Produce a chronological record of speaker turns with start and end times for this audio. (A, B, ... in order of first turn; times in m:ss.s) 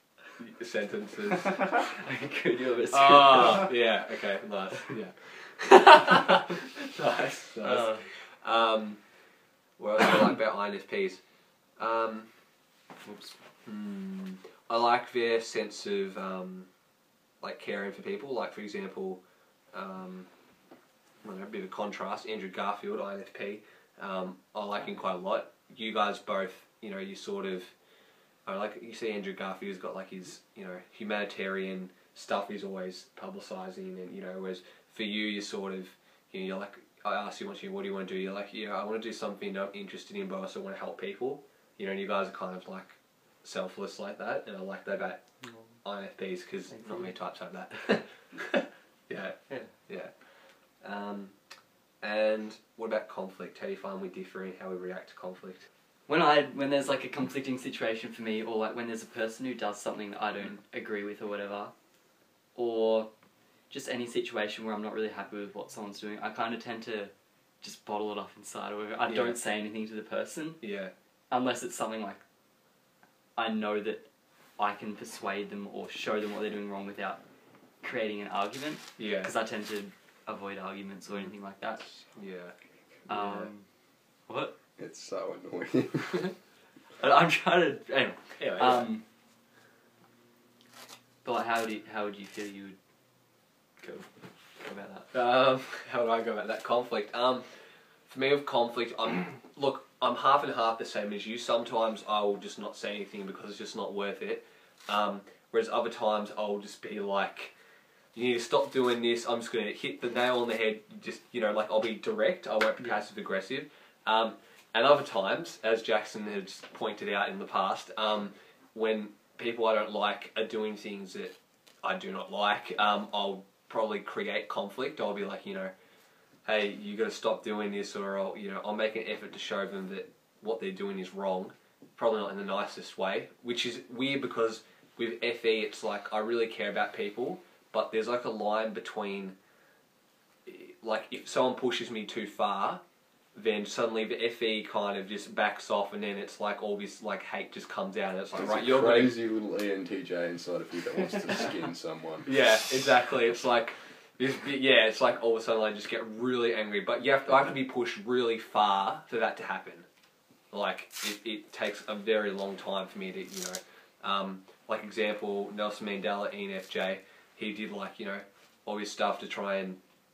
0:00.4-0:01.6 A
0:01.6-0:03.7 B
0:02.9-0:09.0 A
0:07.6-0:08.0 B
0:09.8-0:11.2 A
0:11.8-0:12.3 A
0:13.0-0:13.4 B
0:13.6-0:16.7 A
0:17.4-0:19.2 A
0:19.7-0:20.3 A
0:21.2-0:27.7 A
0:28.4-0:50.1 A
0:45.4-0:45.8 B
0:46.7-0:48.0 B
0:50.7-0:51.4 A
0:52.0-0:55.7 A
0:56.1-1:01.7 B
1:02.5-1:03.1 B
1:03.7-1:10.6 B
1:09.1-1:09.4 A
1:10.6-1:10.9 A
1:11.3-1:12.2 B
1:13.4-1:14.1 B
1:14.6-1:17.2 B
1:17.8-1:22.1 B
1:19.0-1:19.3 A
1:22.1-1:22.5 A
1:23.1-1:23.7 B
1:23.1-1:23.5 A
1:24.3-1:24.5 B
1:24.8-1:26.3 C
1:27.0-1:29.0 B
1:28.4-1:28.9 A
1:31.2-1:32.8 B
1:33.8-1:34.1 B
1:34.6-1:35.1 B
1:35.1-1:37.5 A
1:38.1-1:47.5 A
1:48.1-2:05.7 A
2:06.4-2:19.4 A
2:20.4-2:22.8 A
2:23.3-2:29.2 A
2:28.3-2:32.3 C
2:32.2-2:39.9 A
2:40.5-2:49.8 A